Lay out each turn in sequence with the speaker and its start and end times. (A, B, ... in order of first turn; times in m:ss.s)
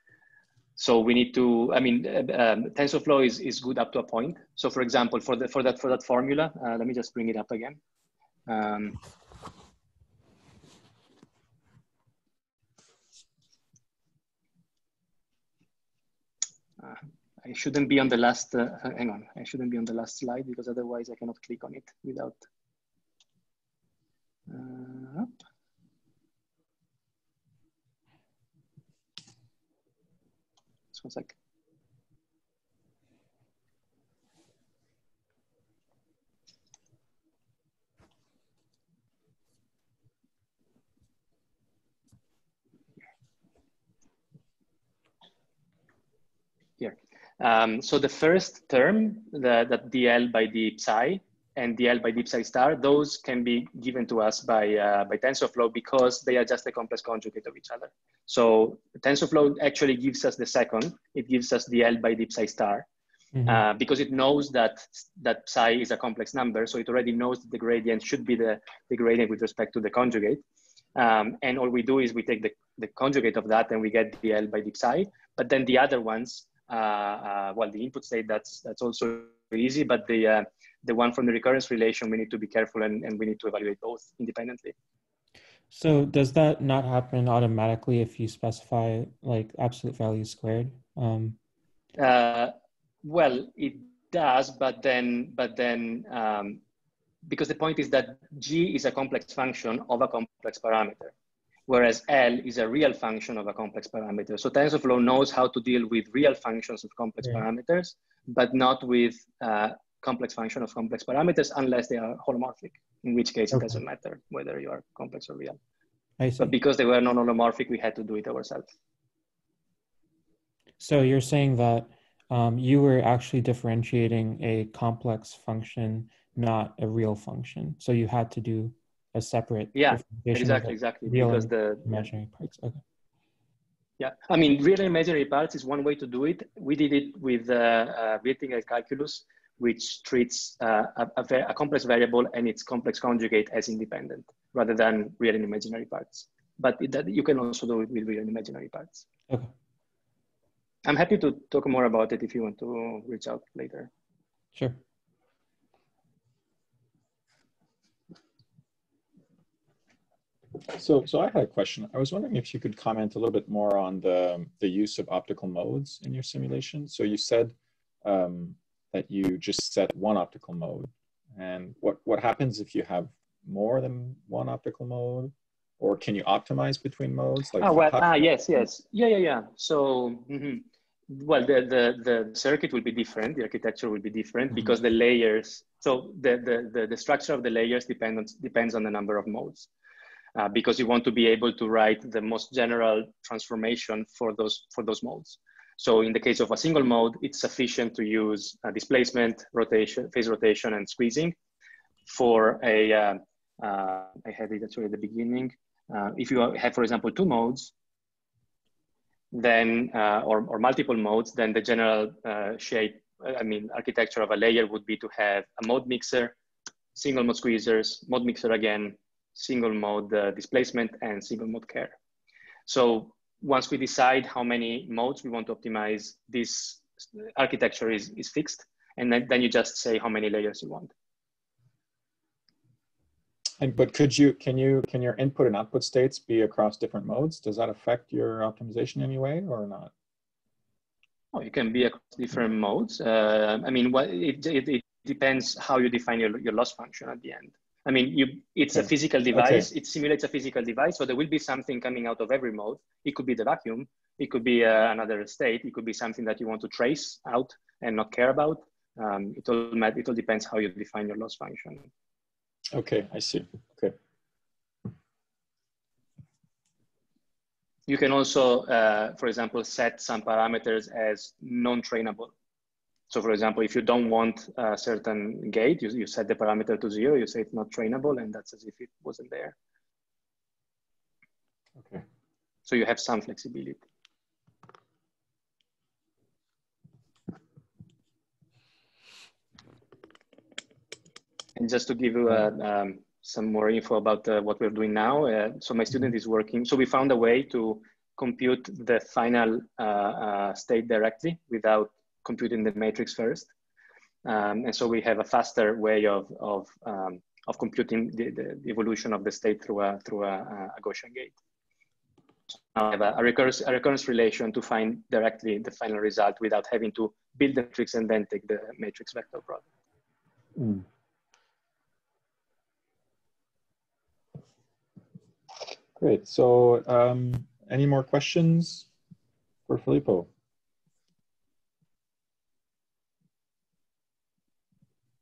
0:00.8-0:07.8 A
0:08.5-0:09.0 A
0:16.8-0:22.4 A
0:24.5-0:25.3 A
0:30.9-0:31.4 A
0:46.8-1:02.9 A
1:03.5-1:10.4 A
1:11.0-1:24.7 A
1:25.7-1:31.4 B
1:32.0-1:36.6 A
1:37.3-1:41.1 A
1:41.7-1:55.6 A
1:53.5-1:53.8 B
1:56.2-1:56.5 B
1:56.4-1:58.7 A
2:00.8-2:12.8 B
2:09.7-2:12.1 A
2:14.0-2:29.1 A
2:30.8-2:33.9 A
2:40.7-2:58.2 C
2:57.6-3:09.7 A
3:10.4-3:21.4 A
3:22.1-3:27.7 A
3:29.3-3:36.4 A
3:37.0-3:42.0 A
3:42.7-3:50.9 A
3:53.6-3:59.9 C
4:01.3-4:21.9 A
4:09.3-4:09.7 C
4:22.7-4:23.9 C
4:27.9-4:32.3 A
4:33.1-4:39.6 A
4:41.8-4:42.0 C
4:42.7-4:43.8 A
4:51.6-5:03.5 A
5:04.2-5:11.4 A
5:12.7-5:19.7 A
5:20.6-5:20.8 C
5:26.0-5:28.9 C
5:29.7-5:30.3 C